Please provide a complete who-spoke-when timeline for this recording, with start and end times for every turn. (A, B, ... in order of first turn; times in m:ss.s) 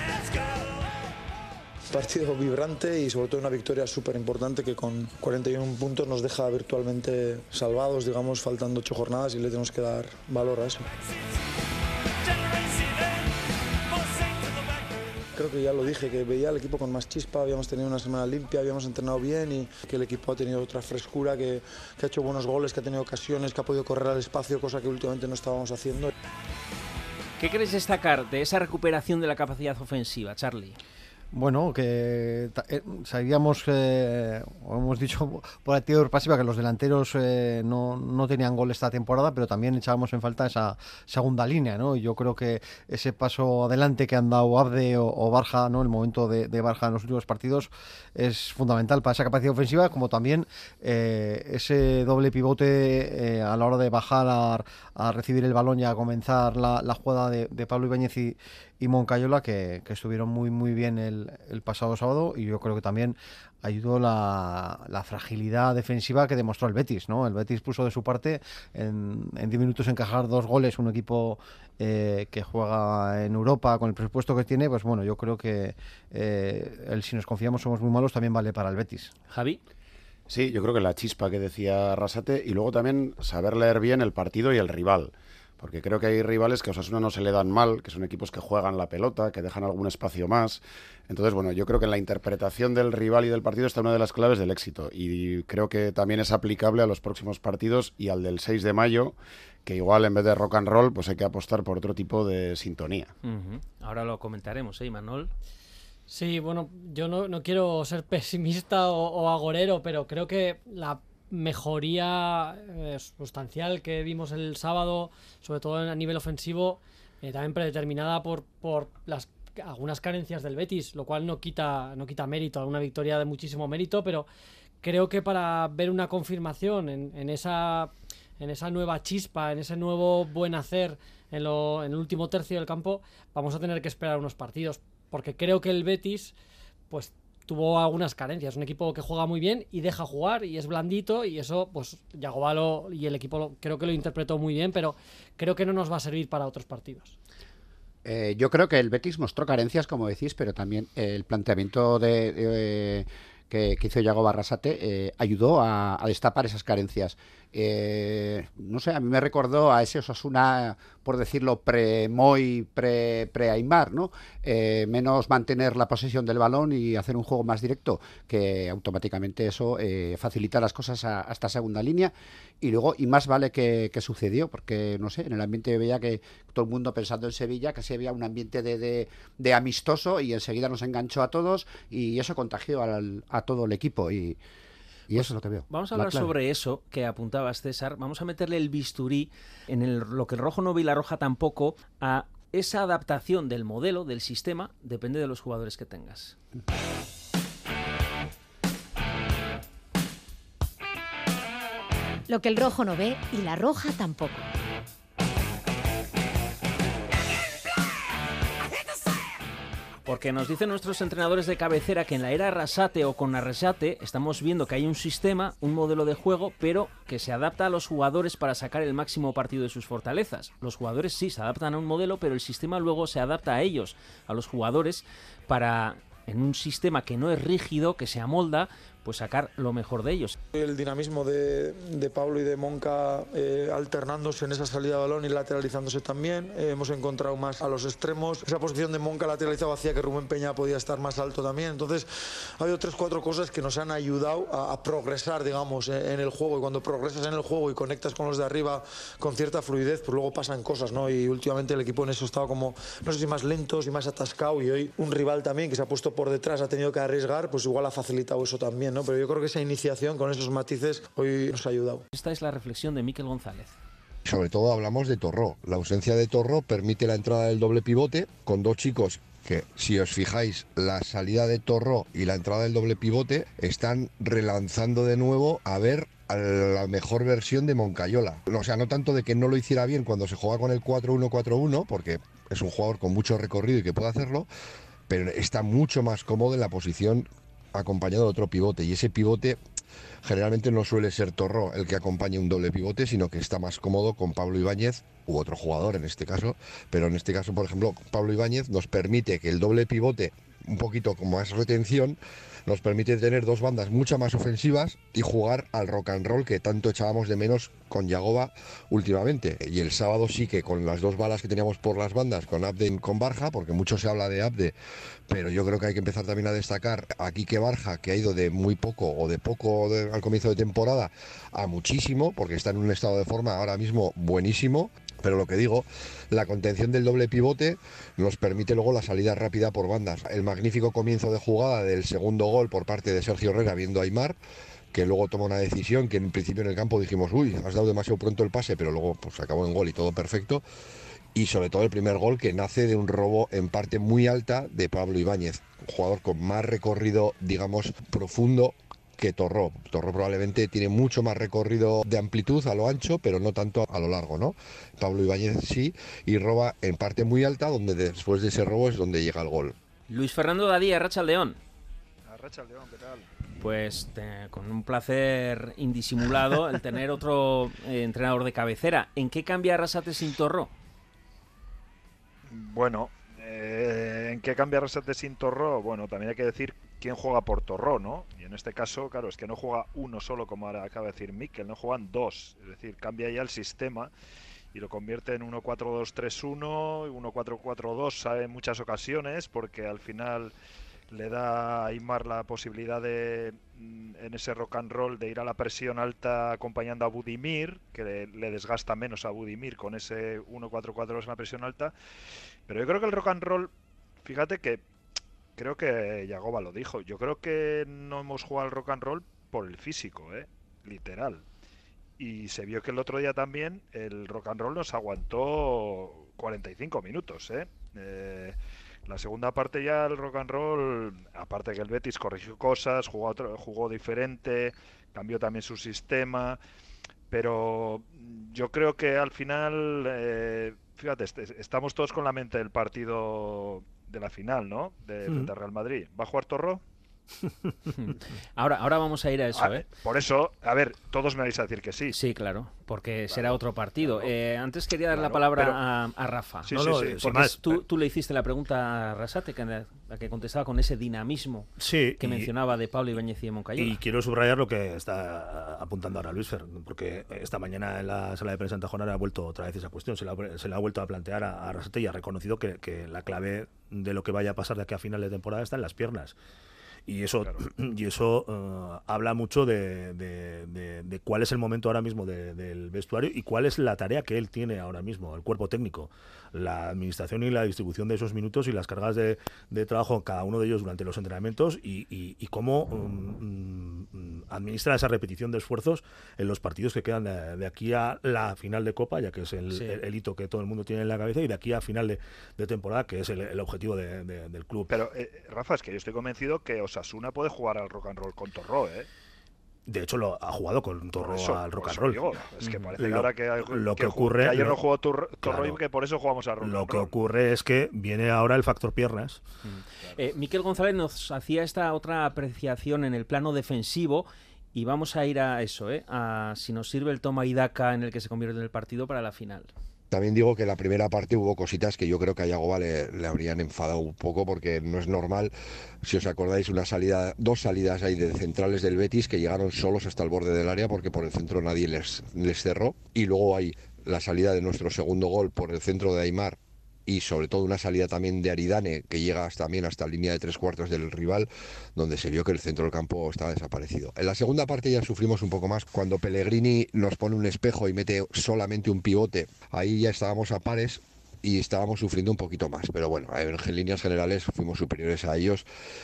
0:01.9-0:10.9 A
0:15.3-0:26.1 A
0:27.4-0:30.8 B
0:31.3-1:19.1 C
1:19.3-1:19.6 B
1:20.3-1:43.1 D
1:43.2-1:45.3 B
1:46.1-2:04.3 E
2:04.8-2:16.3 E
2:16.9-2:27.2 E
2:28.0-3:04.4 F
3:05.1-3:06.3 F
3:05.1-3:16.4 B
3:22.3-3:24.4 G
3:30.0-3:50.4 B
3:50.5-4:22.0 A
4:22.1-4:23.8 B
4:24.2-4:44.5 H
4:45.1-4:49.6 H
4:50.2-5:14.7 H
5:15.3-5:34.4 H
5:34.9-5:40.6 H
5:41.3-5:59.7 H
6:00.1-6:01.6 B
6:02.2-6:03.3 I
6:03.6-6:10.7 B
6:12.5-6:24.1 I
6:24.7-6:30.5 I
6:31.1-6:41.9 I
6:42.7-6:43.7 I
6:44.2-6:44.8 I
6:45.6-6:51.4 I
6:52.2-6:58.6 I
6:59.1-7:06.6 I
7:07.3-7:16.8 I
7:18.0-7:19.8 B
7:19.6-7:22.1 I
7:22.1-7:34.0 B
7:25.1-7:25.8 J
7:26.7-7:27.1 I
7:26.7-7:27.8 J
7:31.8-7:32.5 J
7:33.8-7:46.4 J
7:47.1-8:15.0 J
8:09.7-8:10.0 B
8:14.9-8:19.1 I
8:19.9-8:22.4 J
8:21.2-8:27.1 I
8:22.6-8:23.0 B
8:23.0-8:25.8 J
8:26.6-8:29.4 J
8:29.6-8:39.7 B
8:40.1-8:45.5 H
8:46.0-9:15.6 H